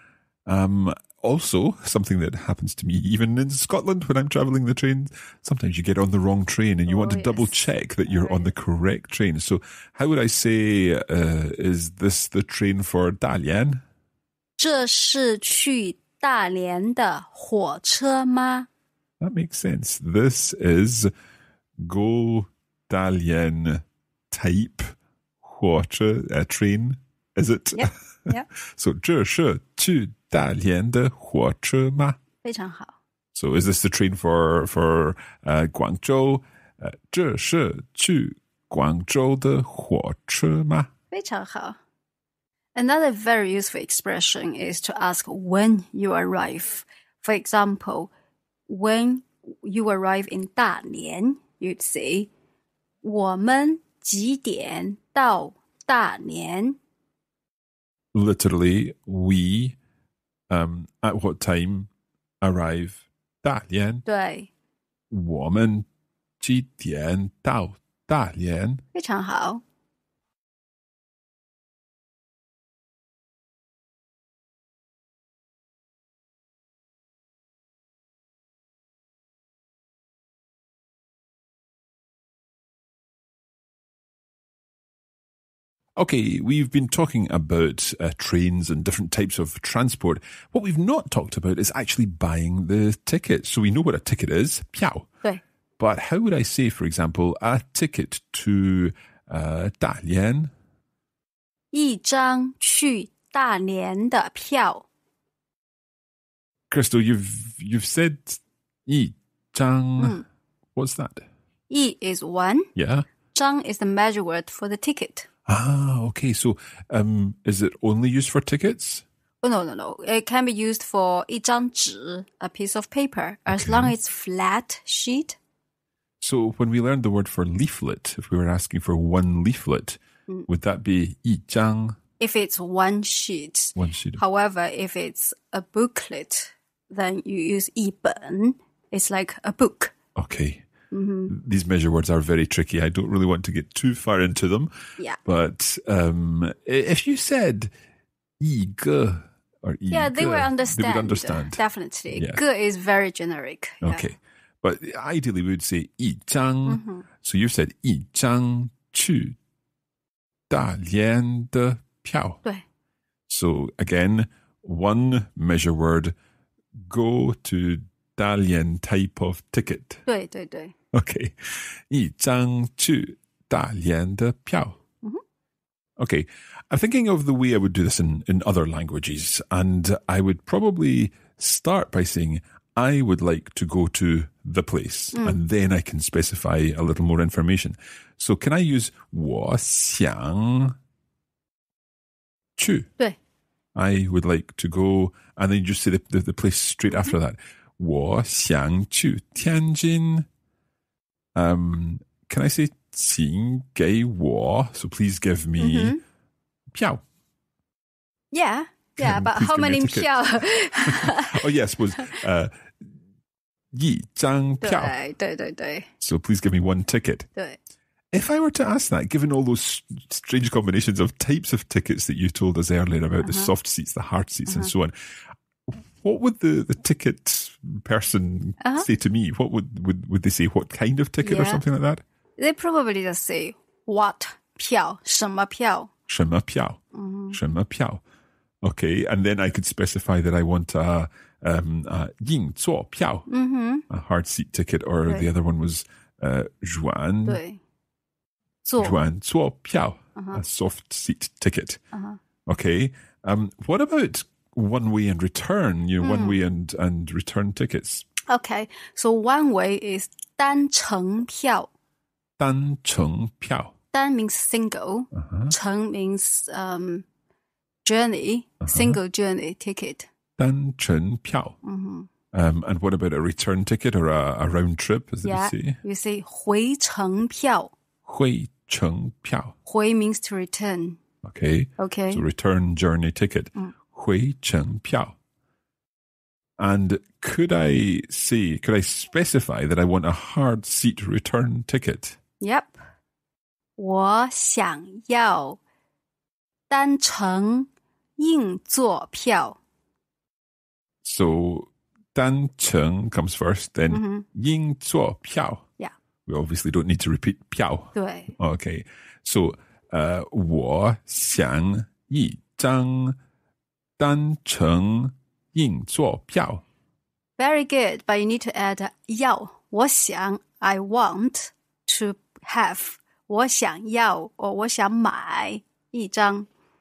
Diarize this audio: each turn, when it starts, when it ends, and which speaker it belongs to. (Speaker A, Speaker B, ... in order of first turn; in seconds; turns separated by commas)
Speaker A: 0.5-13.8, Speaker B: 6.9-7.6, Speaker B: 8.2-8.5, Speaker B: 14.6-18.7, Speaker A: 19.2-21.1, Speaker A: 21.8-32.2, Speaker B: 27.7-28.4, Speaker B: 32.4-33.0, Speaker A: 33.3-40.9, Speaker B: 41.1-41.8, Speaker B: 42.7-48.1, Speaker B: 48.7-52.3, Speaker B: 53.0-56.8, Speaker A: 58.1-59.8, Speaker A: 60.5-61.9, Speaker A: 62.4-64.0, Speaker B: 64.0-64.5, Speaker A: 65.1-65.9, Speaker A: 66.4-68.8, Speaker B: 68.9-69.6, Speaker A: 86.0-95.1, Speaker A: 95.8-100.5, Speaker B: 101.7-104.8, Speaker A: 106.7-110.2, Speaker B: 110.0-110.2, Speaker A: 110.7-111.2, Speaker B: 111.7-112.7, Speaker A: 112.8-113.1, Speaker B: 113.3-115.3, Speaker A: 115.5-119.0, Speaker B: 119.4-125.4, Speaker A: 123.5-123.9, Speaker A: 126.2-132.0, Speaker B: 132.2-139.9, Speaker A: 133.7-134.2, Speaker A: 140.2-140.7, Speaker B: 140.9-141.3, Speaker A: 141.3-144.7, Speaker A: 145.2-147.7, Speaker A: 148.4-152.4, Speaker B: 149.9-154.0, Speaker A: 153.8-159.3, Speaker B: 156.7-157.1, Speaker A: 160.5-162.4, Speaker A: 163.3-166.1, Speaker A: 166.8-170.0, Speaker B: 170.1-170.7, Speaker A: 170.9-174.8, Speaker A: 176.0-190.8, Speaker B: 185.1-185.4, Speaker A: 192.6-192.9, Speaker A: 193.7-200.3, Speaker B: 196.9-197.1, Speaker A: 201.3-206.0, Speaker B: 205.6-206.0, Speaker A: 206.7-207.0, Speaker B: 208.3-211.4, Speaker A: 209.0-212.9, Speaker A: 213.7-214.9, Speaker B: 214.6-215.9, Speaker A: 216.0-217.3, Speaker A: 218.1-224.9, Speaker B: 223.2-223.5, Speaker A: 225.7-232.0, Speaker B: 228.6-228.9, Speaker B: 231.2-231.6, Speaker B: 232.4-235.9, Speaker A: 236.1-236.8, Speaker B: 236.9-237.3, Speaker A: 237.3-238.0, Speaker A: 238.6-243.3, Speaker B: 243.3-243.8, Speaker A: 243.9-247.4, Speaker B: 247.2-247.6, Speaker B: 248.7-249.0, Speaker A: 248.8-251.8, Speaker B: 250.2-250.4, Speaker B: 251.9-252.2, Speaker A: 252.4-258.1, Speaker B: 256.0-256.4, Speaker B: 258.3-261.7, Speaker A: 262.4-263.7, Speaker B: 263.9-267.0, Speaker A: 265.1-265.5, Speaker B: 267.8-270.1, Speaker A: 268.6-269.0, Speaker A: 270.4-271.6, Speaker B: 271.6-272.1, Speaker A: 272.3-275.8, Speaker B: 275.2-277.7, Speaker A: 278.0-279.5, Speaker B: 279.6-281.0, Speaker A: 281.2-285.2, Speaker B: 281.8-282.2, Speaker A: 286.6-292.2, Speaker B: 292.4-292.8, Speaker B: 293.8-295.6, Speaker B: 296.7-299.6, Speaker A: 301.0-305.6, Speaker B: 303.9-304.2, Speaker A: 306.2-313.2, Speaker B: 307.9-308.3, Speaker A: 314.0-316.6, Speaker B: 317.4-326.5